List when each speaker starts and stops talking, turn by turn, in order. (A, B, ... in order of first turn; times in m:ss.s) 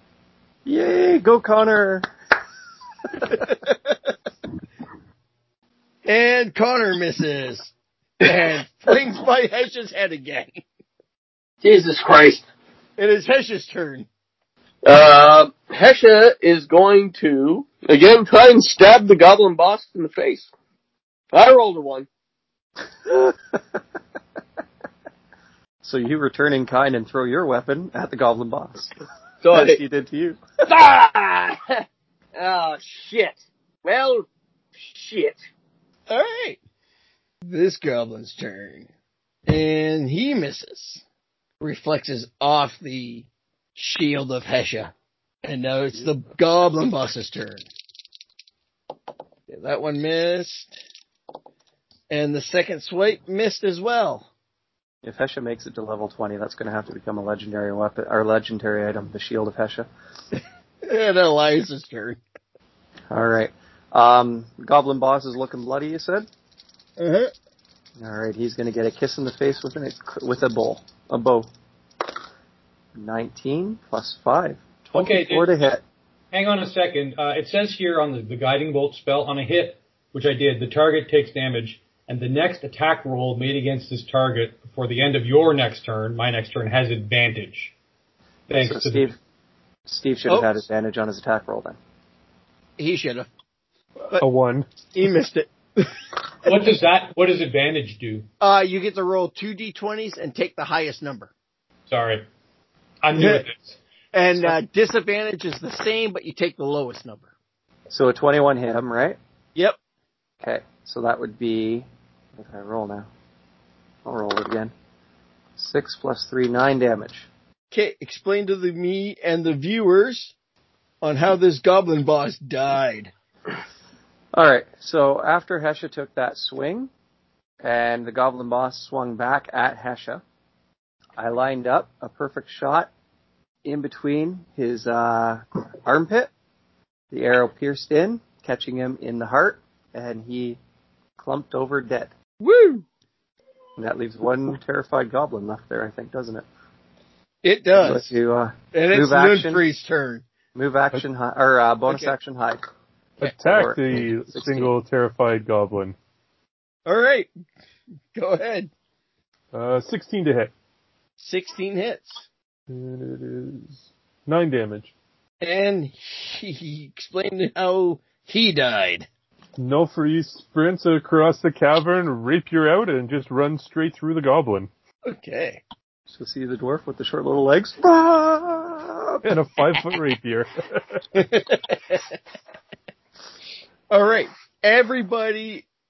0:00.6-0:02.0 A
0:03.4-0:03.7 B
0:06.0-0:10.6 B
0:11.6-0:12.4 C
0:13.0-0:14.1 B
0:14.8-0:20.5 C
0:21.3-0:22.1 C
0:25.8-0:28.9 A
0:29.4-0:29.8 C
0:29.5-0:30.4 A
0:30.6-0:31.8 C
0:32.4-0:34.3 C
0:34.8-0:35.4 C
0:36.1-0:36.6 B
0:37.4-0:38.9 B
0:39.5-0:41.0 B
0:41.6-0:44.9 B
0:45.4-0:47.6 B
0:49.5-0:50.7 B
0:52.1-0:54.3 B
0:55.0-0:59.9 A
1:00.8-1:02.2 B
1:03.1-1:06.3 A
1:07.0-1:07.3 B
1:08.0-1:11.5 A
1:12.9-1:15.8 A
1:14.9-1:15.5 D
1:16.3-1:27.7 D
1:28.5-1:29.1 D
1:28.6-1:29.2 A
1:29.9-1:31.8 A
1:30.3-1:30.6 B
1:32.8-1:33.3 B
1:34.2-1:34.7 E
1:34.9-1:36.0 B
1:36.4-1:38.2 D
1:38.4-1:41.3 B
1:41.9-1:42.2 D
1:43.0-1:43.8 D
1:43.1-1:43.4 B
1:44.1-1:47.3 B
1:47.9-1:49.2 A
1:50.4-1:53.1 A
1:54.0-1:54.7 A
1:55.6-1:57.3 A
1:57.7-2:00.3 B
2:01.0-2:03.1 B
2:04.3-2:06.9 A
2:07.6-2:10.2 A
2:11.2-2:12.9 A
2:13.6-2:16.3 A
2:17.1-2:20.6 A
2:21.2-2:22.1 A
2:22.4-2:22.8 B
2:23.8-2:26.4 A
2:27.4-2:28.1 B
2:27.8-2:29.6 A
2:28.7-2:30.2 B
2:30.5-2:32.6 A
2:31.9-2:32.1 B
2:33.2-2:36.0 E
2:33.2-2:34.7 A
2:36.8-2:37.3 B
2:38.1-2:38.7 B
2:39.5-2:40.5 E
2:41.2-2:42.2 B
2:42.7-2:44.9 E
2:45.4-2:49.1 B
2:49.6-2:54.7 E
2:55.0-2:55.6 B
2:56.1-2:59.2 A
2:59.2-3:01.0 E
3:01.1-3:02.0 B
3:03.9-3:05.6 B